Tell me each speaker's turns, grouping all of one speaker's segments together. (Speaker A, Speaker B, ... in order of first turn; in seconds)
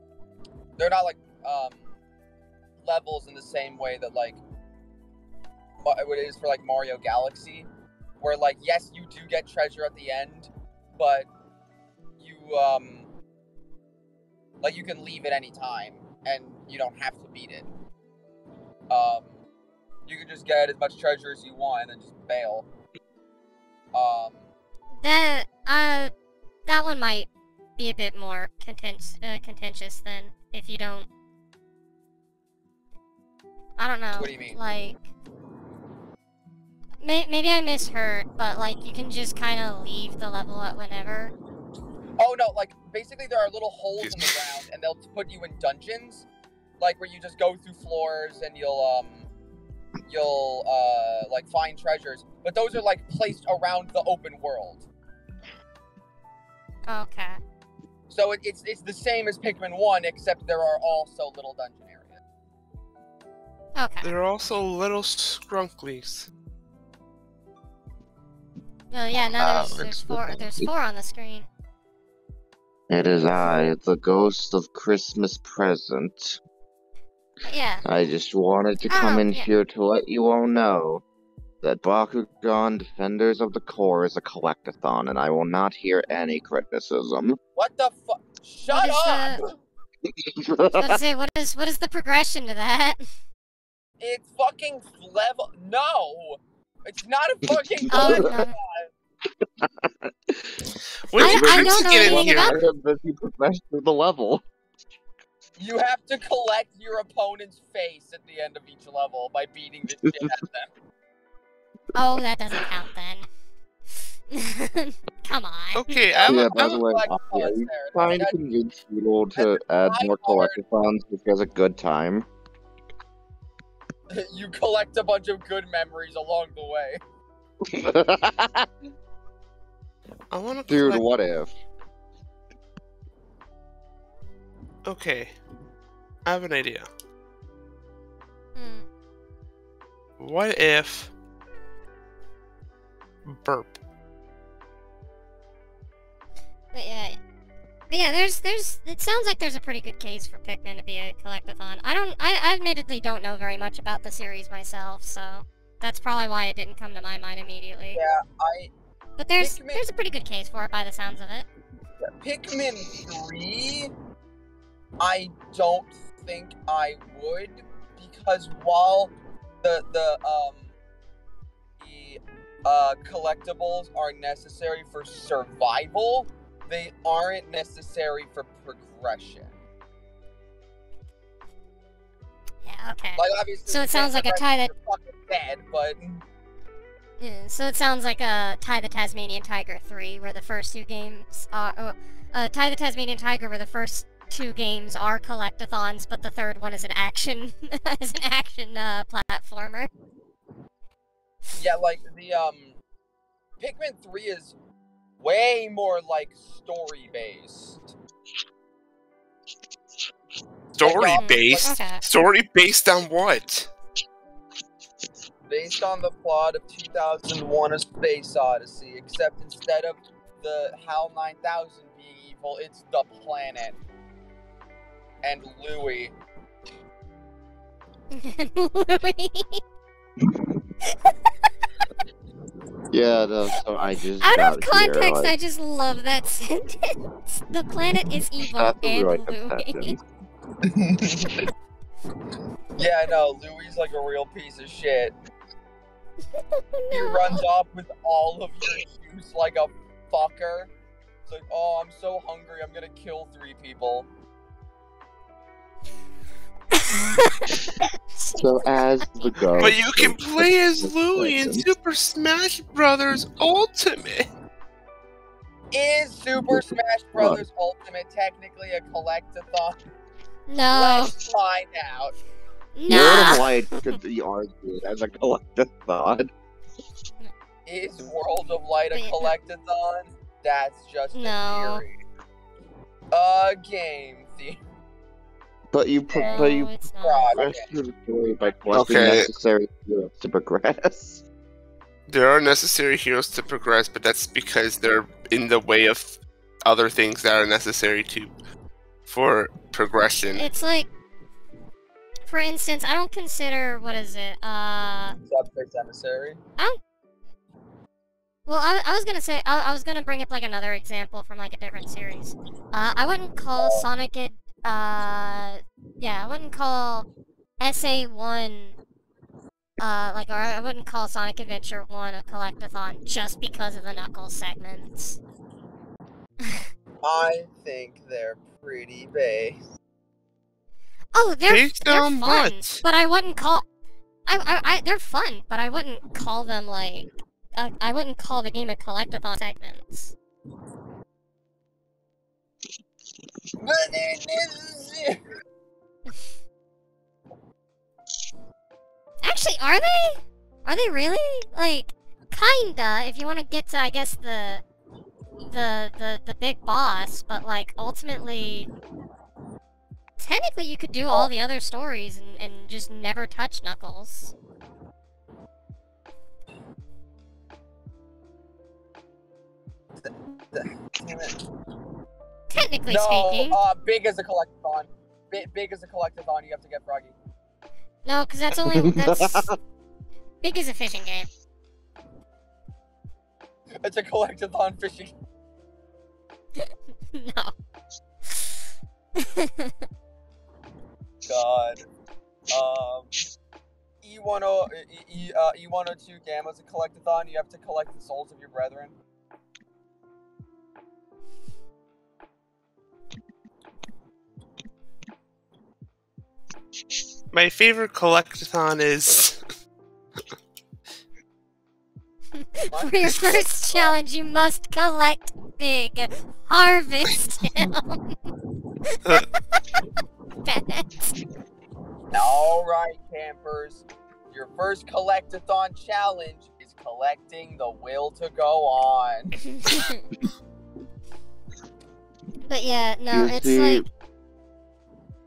Speaker A: 0.8-1.9, 2.8-4.4, 5.8-7.7, 8.2-11.3, 12.2-13.1, 14.6-17.7, 18.9-19.4, 20.1-22.7, 23.9-24.5, 34.1-34.6, 42.2-46.3, 46.8-49.3, 50.1-54.9, 58.1-62.2, 87.5-89.4, 94.0-98.9, 105.6-110.7, 116.1-118.3, 119.3-120.6, 124.1-127.0, 157.9-158.7, 159.4-159.9, 162.0-163.9, 165.0-170.7, 171.8-179.5, 183.2-186.2, 201.6-202.8, 203.6-204.6, 205.2-207.9, 210.8-211.8, 215.5-223.8, 225.2-226.1, 240.7-241.3, 242.8-245.2, 246.9-250.7, 251.3-254.1, 265.7-269.8, 270.7-272.1, 277.7-281.9, 283.1-284.6, 286.1-287.7, 305.3-306.4, 313.6-313.9, 327.0-329.6, 343.6-345.2, 370.0-371.4, 372.9-377.2, 383.8-385.1, 391.2-391.8, 392.5-393.2, 394.0-398.9, 412.7-413.9, 422.1-429.4
Speaker B: 25.0-26.1, 26.7-31.1, 33.8-35.1, 37.0-41.3, 56.9-57.4, 63.8-64.1, 68.9-71.5, 77.5-77.8, 78.9-79.5, 88.7-89.4, 90.7-93.1, 97.9-98.6, 101.2-102.6, 112.0-113.3, 114.3-115.9, 138.6-138.9, 146.7-147.2, 147.9-158.0, 159.2-161.5, 182.7-184.7, 187.2-199.9, 211.2-212.0, 228.1-229.6, 230.9-231.3, 234.2-239.9, 246.3-247.4, 256.7-257.5, 258.1-259.8, 270.5-271.1, 272.8-273.6, 278.9-279.3, 281.1-281.9, 286.3-287.3, 300.2-300.9, 302.3-305.2, 308.5-317.1, 317.6-318.8, 319.8-325.2, 331.1-333.6, 334.3-340.1, 349.2-354.6, 355.5-358.7, 360.2-364.3, 372.5-373.6, 378.1-379.5, 380.4-381.3, 386.6-387.5, 389.2-389.7, 412.4-418.1, 418.9-419.9, 420.4-421.1, 429.4-430.1, 432.4-433.9
Speaker C: 44.0-44.4, 64.0-66.3, 101.1-102.6, 115.8-116.8, 130.3-131.1, 134.8-135.3, 136.3-136.9, 140.2-141.1, 143.3-143.8, 210.8-213.7, 259.6-264.3, 288.7-289.3, 292.1-298.3, 299.1-300.5, 331.5-332.8, 407.3-409.4
Speaker D: 69.4-70.7, 72.9-76.4, 77.8-81.0, 81.6-87.4, 90.1-91.0, 97.9-98.2, 99.6-100.5, 101.1-104.4, 116.2-122.3, 127.6-128.7, 130.7-131.5, 232.9-235.3, 238.6-240.0, 258.4-261.6, 266.5-267.4, 272.9-276.3, 285.7-286.7, 287.3-291.2, 378.6-379.6, 433.1-433.9